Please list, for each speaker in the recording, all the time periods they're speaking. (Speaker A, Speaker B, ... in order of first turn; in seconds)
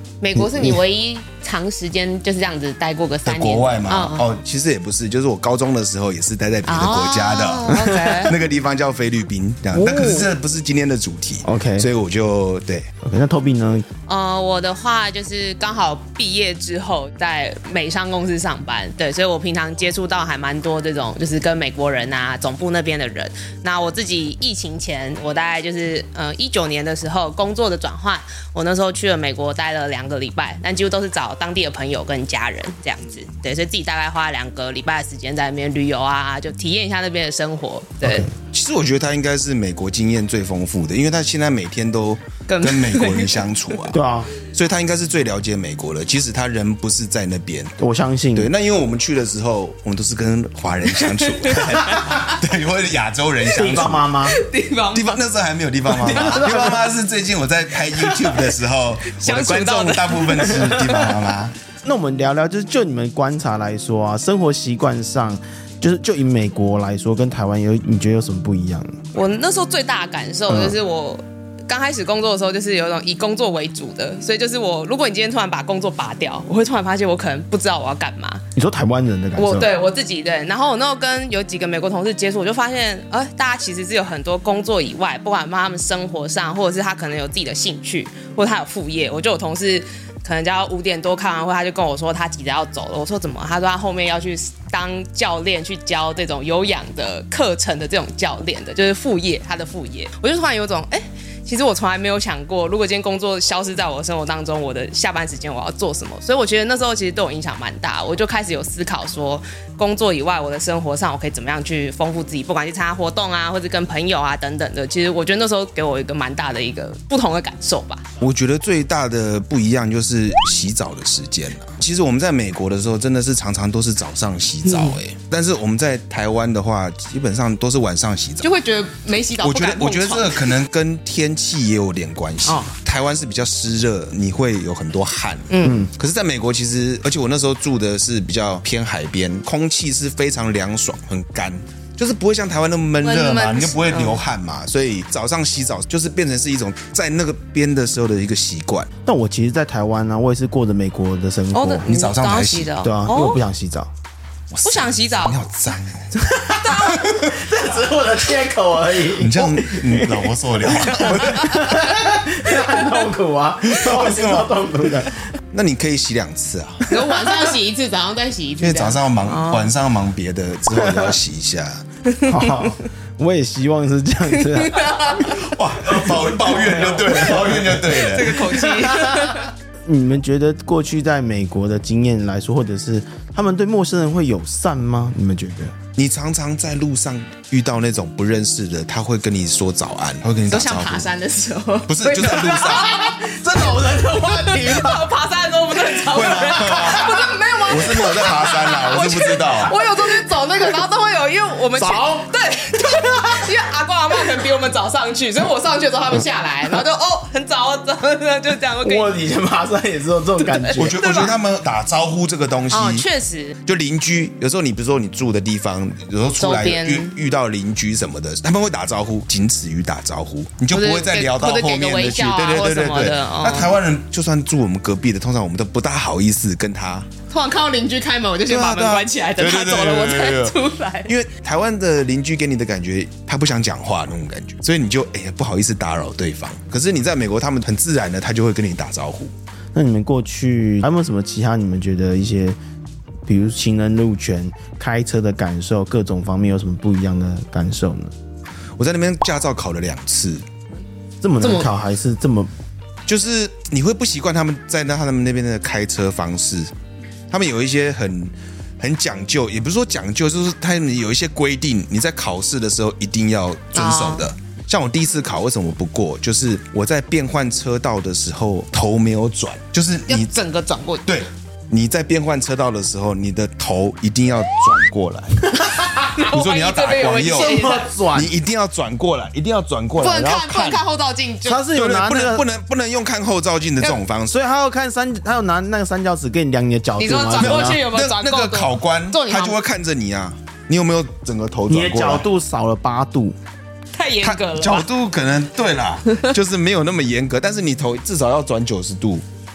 Speaker A: 0.2-4.2, 6.7-8.4, 9.8-10.3, 14.1-38.3, 42.5-43.5, 51.1-52.2, 54.2-55.2, 59.1-61.1, 69.1-78.4, 79.4-118.0, 124.7-125.0, 128.4-130.6, 132.5-132.7, 135.5-135.9, 143.0-144.2, 151.5-153.4, 154.7-155.5, 156.7-157.0, 162.7-162.9, 166.9-169.7, 172.1-172.4, 174.4-175.3, 177.2-179.5, 190.5-209.3, 210.4-211.4, 212.7-213.6, 216.4-217.2, 220.7-223.8, 227.3-231.1, 251.4-251.7, 263.8-264.3, 270.1-271.1, 276.1-277.9, 280.0-281.6, 287.0-289.6, 293.9-294.9
Speaker B: 0.3-0.8, 7.7-8.2, 11.4-11.9, 13.0-13.9, 38.0-38.3, 43.9-44.3, 47.8-48.5, 53.5-54.4, 55.9-56.9, 61.8-69.0, 70.5-70.8, 78.6-79.7, 135.6-135.9, 149.1-151.9, 152.8-153.9, 156.1-165.2, 166.9-167.5, 170.7-171.2, 172.2-185.8, 192.2-195.1, 195.9-198.6, 201.8-202.3, 203.2-203.5, 208.8-211.0, 239.7-242.6, 243.3-248.1, 251.2-252.5, 275.6-276.1, 277.3-278.3, 281.4-282.4, 284.3-287.8, 291.7-293.4
Speaker C: 3.2-12.9, 38.5-47.8, 48.4-54.0, 54.9-61.5, 118.2-128.5, 129.4-148.9, 151.9-152.7, 154.5-157.4, 159.1-161.9, 163.6-164.6, 165.5-166.9, 168.6-171.8, 175.2-178.4, 186.0-191.1, 191.9-193.0, 196.1-199.8, 210.8-213.1, 213.7-227.1, 228.5-239.3, 248.8-250.4, 253.1-256.7, 257.3-270.3, 271.1-280.8, 281.7-284.4, 287.4-292.3, 294.2-299.2